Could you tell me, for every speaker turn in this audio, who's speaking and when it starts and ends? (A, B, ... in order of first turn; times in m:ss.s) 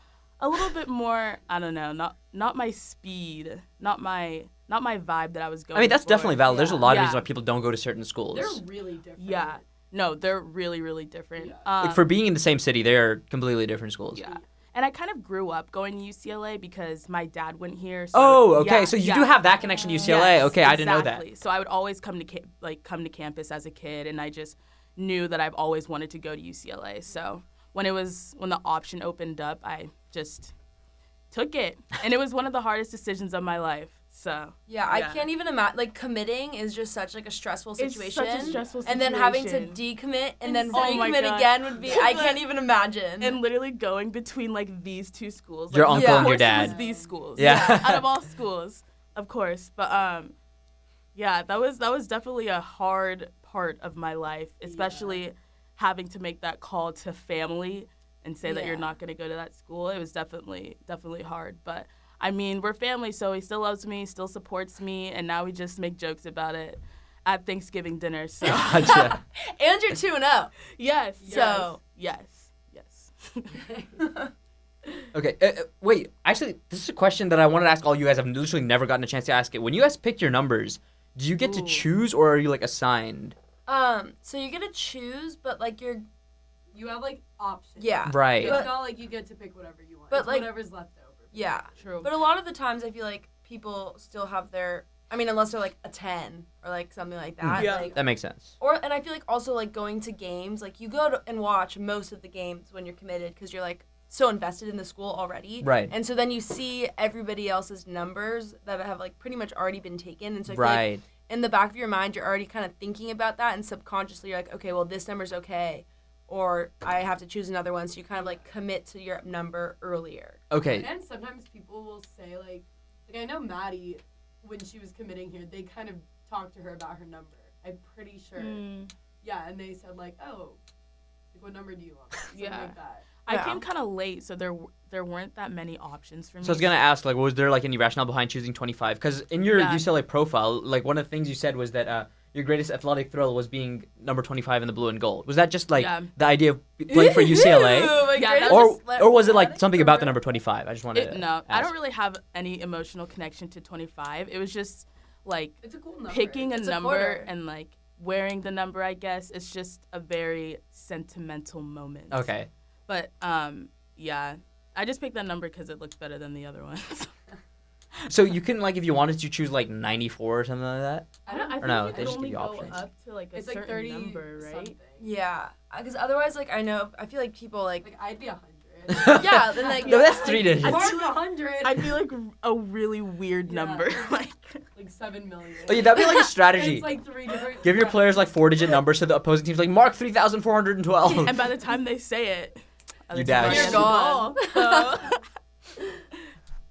0:00.4-0:07.2 A
0:05.7-0:08.6 B
0:06.5-0:06.9 C
0:08.3-0:09.6 C
0:09.2-0:12.1 A
0:11.4-0:11.7 C
0:11.8-0:14.2 B
0:14.1-0:30.5 A
0:14.2-0:14.4 C
0:18.1-0:21.2 B
0:31.3-0:35.3 A
0:34.7-0:43.4 D
0:37.8-0:39.8 A
0:38.3-0:39.1 C
0:40.4-0:41.2 C
0:40.5-0:42.4 A
0:41.8-0:42.1 C
0:43.2-0:50.3 A
0:45.7-0:46.8 B
0:45.9-0:46.4 D
0:46.4-0:47.2 C
0:47.4-0:48.0 B
0:47.4-0:47.9 D
0:51.1-1:09.0 A
0:54.6-0:55.2 C
0:58.5-0:58.9 D
1:08.4-1:09.2 B
1:08.5-1:10.5 D
1:10.8-1:13.6 A
1:11.2-1:11.7 C
1:11.2-1:11.8 D
1:13.6-1:14.0 C
1:15.1-1:23.4 B
1:21.4-1:21.9 A
1:23.6-1:26.0 D
1:26.7-1:31.4 C
1:27.8-1:28.9 D
1:28.1-1:28.6 B
1:30.1-1:30.5 D
1:31.3-1:38.0 D
1:31.8-1:32.1 A
1:37.4-1:38.5 B
1:37.6-1:37.9 A
1:38.6-2:00.4 D
1:45.6-1:45.9 B
1:50.5-1:51.0 B
1:58.2-1:58.4 C
2:00.5-2:00.9 B
2:00.6-2:08.6 C
2:08.4-2:08.9 A
2:09.2-2:10.6 C
2:11.3-2:13.1 C
2:12.3-2:16.8 A
2:13.3-2:13.6 D
2:16.4-2:31.7 B
2:19.5-2:19.8 A
2:25.8-2:26.1 A
2:26.9-2:29.7 D
2:28.1-2:28.8 A
2:29.4-2:30.1 C
2:30.9-2:42.3 A
2:35.6-2:36.6 C
2:36.5-2:37.3 D
2:42.1-2:42.5 B
2:42.9-2:47.1 A
2:48.1-2:52.8 B
2:51.2-2:52.4 C
2:51.3-2:54.8 A
2:53.3-2:55.1 C
2:55.0-2:57.9 D
2:57.8-3:02.0 C
2:58.9-3:01.0 B
2:59.1-3:00.4 D
2:59.8-3:04.6 A
3:03.5-3:04.1 C
3:04.8-3:08.3 C
3:05.6-3:06.9 B
3:07.6-3:11.4 B
3:11.2-3:15.2 A
3:13.1-3:14.0 B
3:13.4-3:15.1 D